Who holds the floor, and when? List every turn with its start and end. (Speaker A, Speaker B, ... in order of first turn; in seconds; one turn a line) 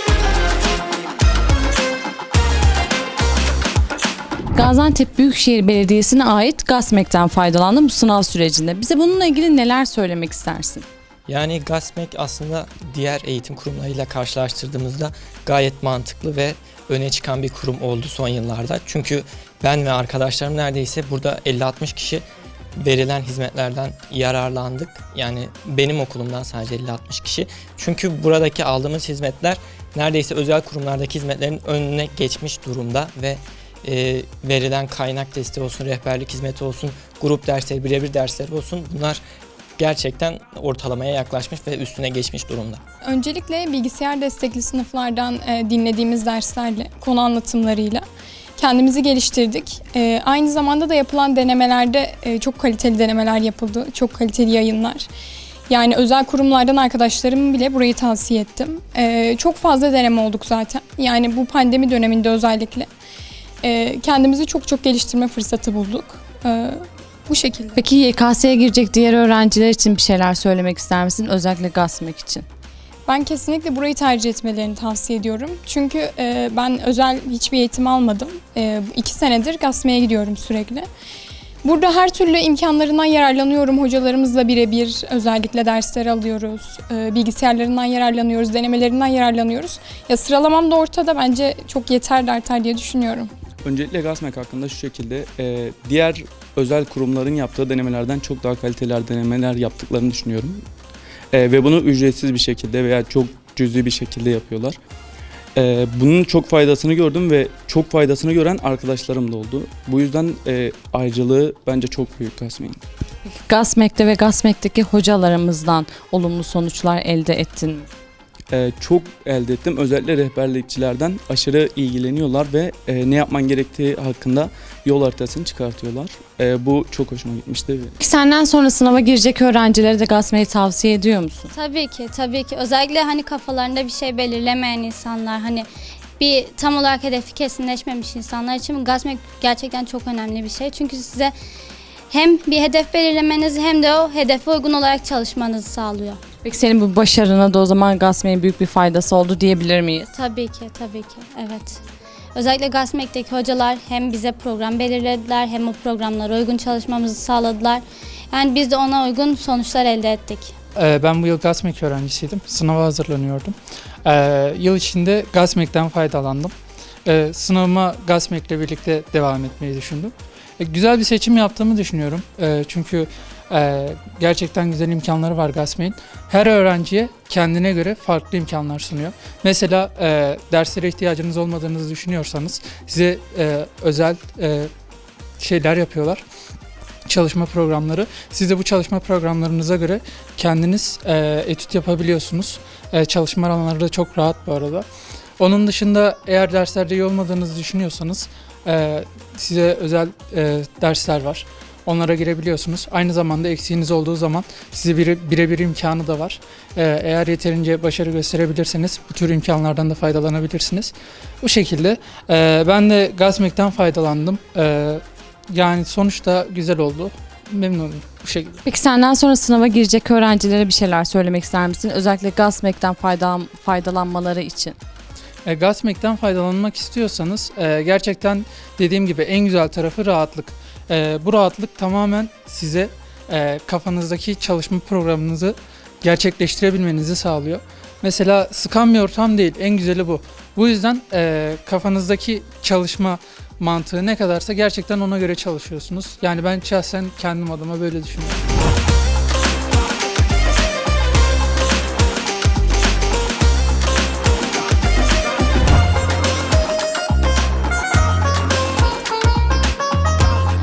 Speaker A: 4.5-10.9
Speaker B: 11.3-22.2
Speaker B: 22.8-39.2
Speaker B: 39.8-42.8
Speaker C: 43.0-48.0
Speaker C: 48.6-55.1
Speaker C: 55.7-62.9
Speaker C: 63.6-67.8
Speaker A: 67.8-72.5
Speaker C: 73.0-80.9
Speaker C: 81.6-93.3
Speaker D: 93.6-100.6
Speaker D: 101.3-104.8
Speaker D: 105.5-112.8
Speaker A: 113.2-117.9
Speaker D: 118.5-128.0
Speaker A: 128.0-131.5
Speaker E: 131.5-141.3
Speaker E: 142.1-146.2
Speaker A: 146.4-150.1
Speaker E: 150.1-151.8
Speaker E: 152.3-160.5
Speaker F: 160.8-163.5
Speaker F: 164.0-166.5
Speaker F: 167.1-184.7
Speaker F: 185.4-186.2
Speaker F: 187.1-194.8
Speaker F: 195.4-218.6
Speaker A: 218.7-224.8
Speaker F: 225.4-248.4